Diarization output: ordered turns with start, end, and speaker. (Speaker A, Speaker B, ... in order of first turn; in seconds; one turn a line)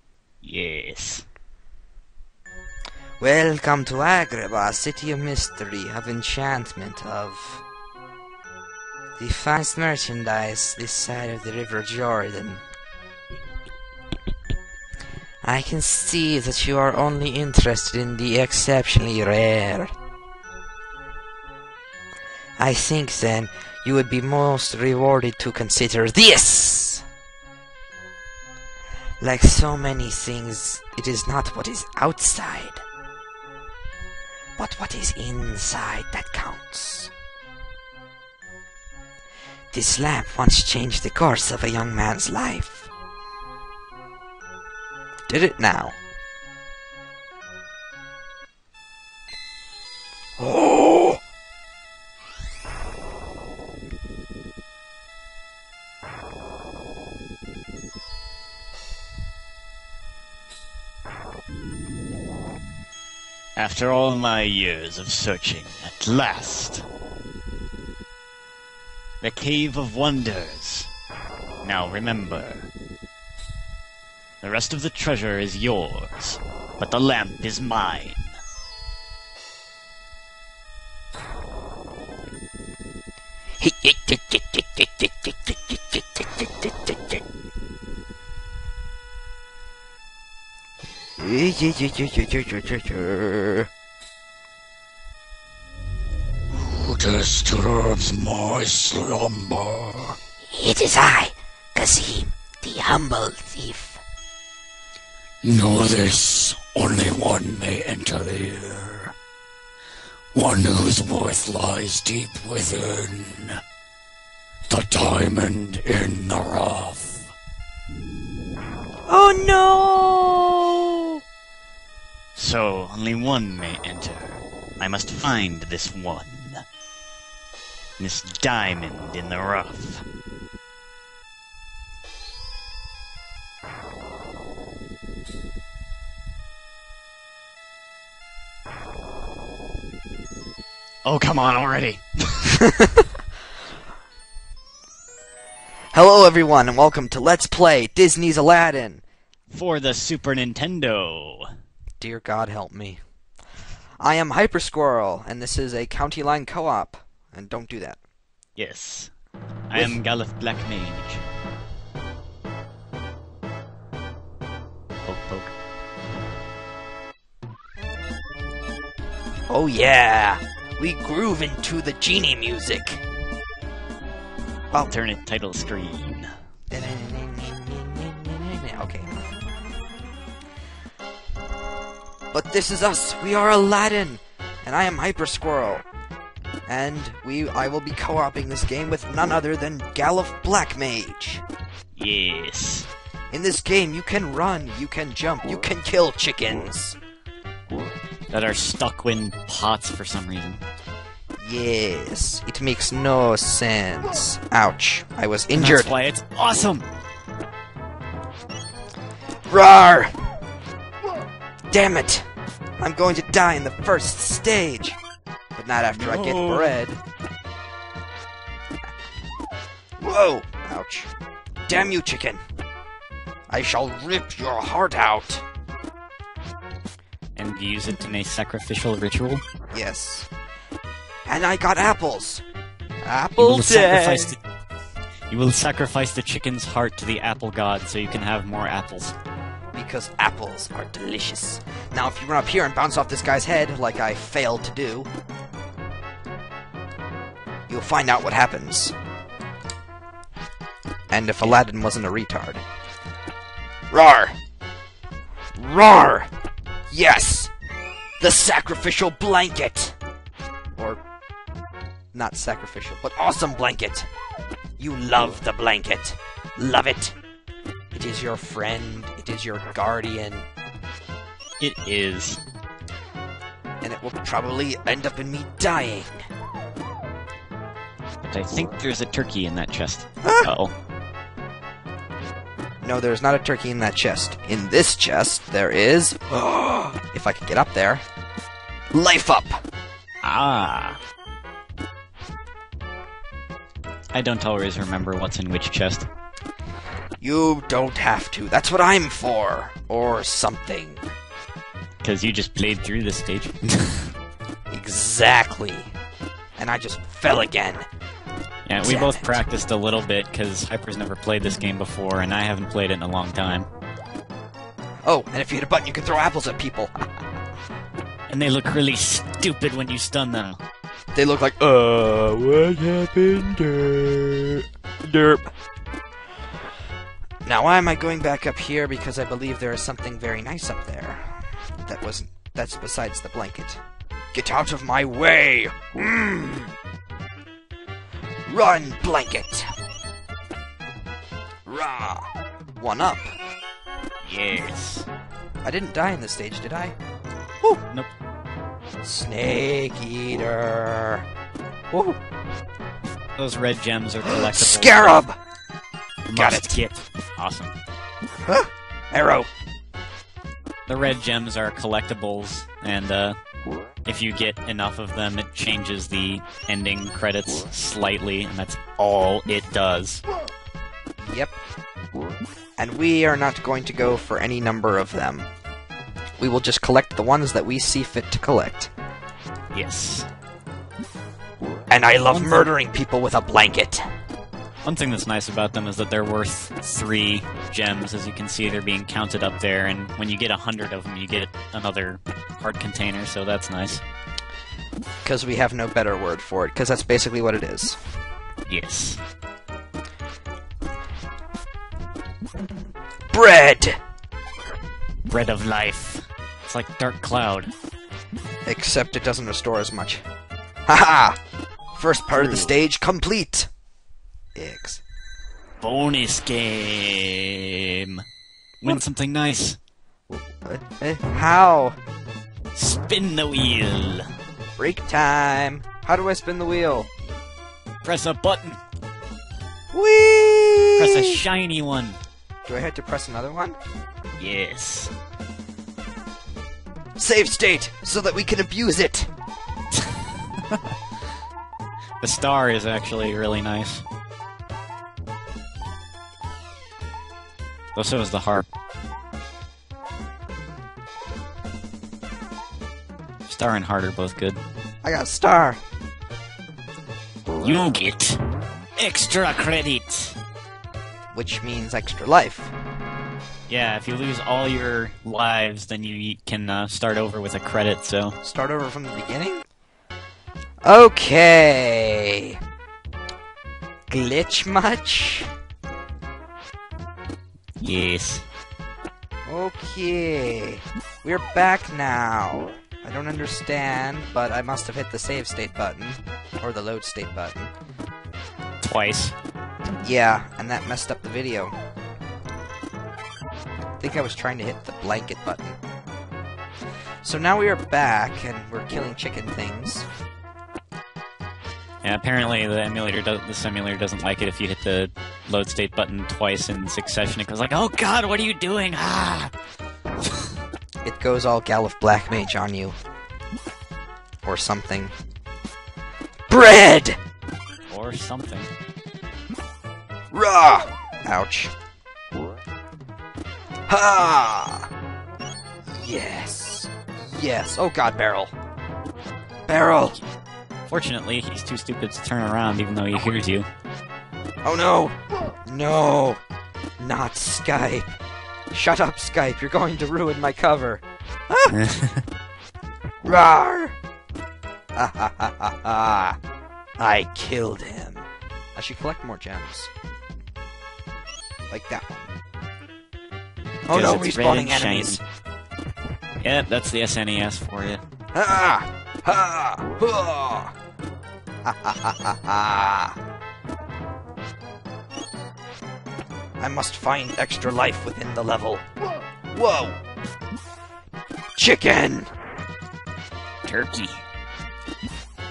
Speaker A: 0.4-1.3
Speaker B: 3.2-7.6
Speaker B: 9.2-12.6
Speaker B: 15.4-19.9
Speaker B: 22.6-27.1
Speaker B: 29.2-32.9
Speaker B: 34.6-37.1
Speaker B: 39.7-42.9
Speaker B: 45.3-46.0
Speaker B: 50.4-51.2
Speaker A: 63.6-66.9
Speaker A: 69.2-70.9
Speaker A: 71.6-72.7
Speaker A: 74.4-78.4
Speaker B: 83.6-87.2
Speaker B: 91.2-93.7
Speaker C: 96.6-100.2
Speaker B: 100.5-104.0
Speaker C: 105.4-109.1
Speaker C: 110.3-113.5
Speaker C: 114.7-117.3
Speaker B: 119.1-121.2
Speaker A: 122.3-126.7
Speaker A: 128.0-130.1
Speaker A: 141.0-142.6
Speaker B: 142.6-143.1
Speaker B: 145.9-149.0
Speaker A: 149.5-151.5
Speaker B: 152.0-153.0
Speaker B: 154.0-158.0
Speaker A: 158.6-159.1
Speaker A: 159.7-161.3
Speaker A: 165.0-165.5
Speaker B: 169.5-173.0
Speaker A: 174.7-176.3
Speaker B: 176.7-179.3
Speaker B: 182.3-185.8
Speaker B: 186.7-191.4
Speaker A: 191.9-192.9
Speaker B: 193.3-197.0
Speaker A: 198.3-200.6
Speaker B: 201.4-205.9
Speaker A: 205.5-206.9
Speaker B: 209.5-210.1
Speaker B: 211.7-212.3
Speaker B: 212.8-215.0
Speaker B: 215.6-217.0
Speaker A: 215.9-216.8
Speaker B: 220.0-221.1
Speaker B: 221.7-222.4
Speaker B: 223.5-225.4
Speaker A: 227.3-229.4
Speaker B: 229.7-230.3
Speaker B: 231.3-232.4
Speaker B: 233.0-234.4
Speaker A: 233.4-234.4
Speaker A: 235.3-239.2
Speaker B: 239.7-245.1
Speaker B: 247.7-248.9
Speaker B: 251.1-252.6
Speaker B: 253.9-254.4
Speaker B: 255.6-256.3
Speaker B: 256.9-257.5
Speaker B: 258.2-260.0
Speaker B: 260.8-261.0
Speaker B: 262.1-264.1
Speaker B: 264.8-267.2
Speaker B: 267.9-270.5
Speaker A: 271.6-272.4
Speaker B: 273.8-276.2
Speaker A: 278.2-280.7
Speaker B: 280.2-280.5
Speaker B: 282.8-288.0
Speaker B: 288.9-289.6
Speaker A: 290.2-291.0
Speaker A: 294.1-296.1
Speaker B: 297.2-301.0
Speaker A: 302.0-304.1
Speaker B: 304.7-305.9
Speaker B: 306.6-307.9
Speaker A: 308.7-313.7
Speaker B: 308.8-309.4
Speaker B: 315.0-317.1
Speaker A: 318.3-320.6
Speaker B: 321.1-325.5
Speaker B: 327.5-333.8
Speaker B: 334.3-336.7
Speaker B: 338.5-339.7
Speaker B: 341.6-343.3
Speaker A: 344.2-345.1
Speaker B: 345.6-346.9
Speaker B: 349.0-351.2
Speaker B: 351.9-352.2
Speaker A: 353.4-355.2
Speaker B: 354.2-355.4
Speaker A: 356.3-357.8
Speaker B: 356.3-356.8
Speaker B: 358.4-359.5
Speaker A: 360.9-363.4
Speaker A: 364.1-370.2
Speaker B: 371.2-371.6
Speaker B: 372.8-375.5
Speaker B: 376.4-378.9
Speaker A: 379.7-380.3
Speaker B: 381.9-384.0
Speaker A: 382.3-382.7
Speaker A: 384.8-394.0
Speaker B: 395.2-398.0
Speaker A: 398.7-399.2
Speaker B: 403.3-404.0
Speaker A: 405.3-407.7
Speaker B: 408.6-410.2
Speaker B: 410.9-411.4
Speaker B: 411.9-413.7
Speaker A: 412.3-412.7
Speaker B: 414.6-415.0
Speaker A: 415.8-418.2
Speaker A: 418.8-419.8
Speaker B: 420.6-422.0
Speaker A: 422.8-424.3
Speaker B: 424.8-427.1
Speaker A: 428.0-428.8
Speaker B: 429.9-431.4
Speaker A: 431.0-432.2
Speaker B: 432.6-433.8
Speaker A: 434.4-435.1
Speaker B: 437.2-439.3
Speaker A: 439.9-440.9
Speaker A: 442.2-444.0
Speaker A: 447.9-448.7
Speaker A: 453.5-454.6
Speaker B: 455.0-455.8
Speaker A: 457.6-458.4
Speaker A: 459.0-460.4
Speaker B: 461.3-462.7
Speaker A: 463.7-468.4
Speaker B: 468.4-469.6
Speaker B: 470.8-472.6
Speaker B: 474.1-475.5
Speaker A: 477.8-478.4
Speaker B: 479.5-487.7
Speaker A: 488.8-489.4
Speaker B: 490.0-491.7
Speaker B: 494.0-495.8
Speaker B: 497.2-500.1
Speaker A: 502.0-509.5
Speaker B: 511.0-513.0
Speaker B: 514.4-515.1
Speaker B: 516.5-517.2
Speaker A: 517.9-518.7
Speaker B: 520.3-521.7
Speaker B: 523.9-524.9
Speaker B: 526.0-528.5
Speaker B: 529.7-530.2
Speaker A: 530.9-533.7
Speaker B: 534.6-536.4
Speaker B: 537.0-538.1
Speaker B: 538.7-541.8
Speaker A: 541.7-542.2
Speaker B: 543.2-544.0
Speaker B: 545.0-546.4
Speaker B: 547.0-549.9
Speaker B: 551.7-552.3
Speaker B: 553.9-555.2
Speaker A: 553.9-555.2
Speaker A: 556.4-558.0
Speaker B: 558.3-560.7
Speaker B: 561.6-563.2
Speaker B: 566.6-568.9
Speaker B: 569.5-570.0
Speaker B: 571.6-572.3
Speaker A: 573.6-574.2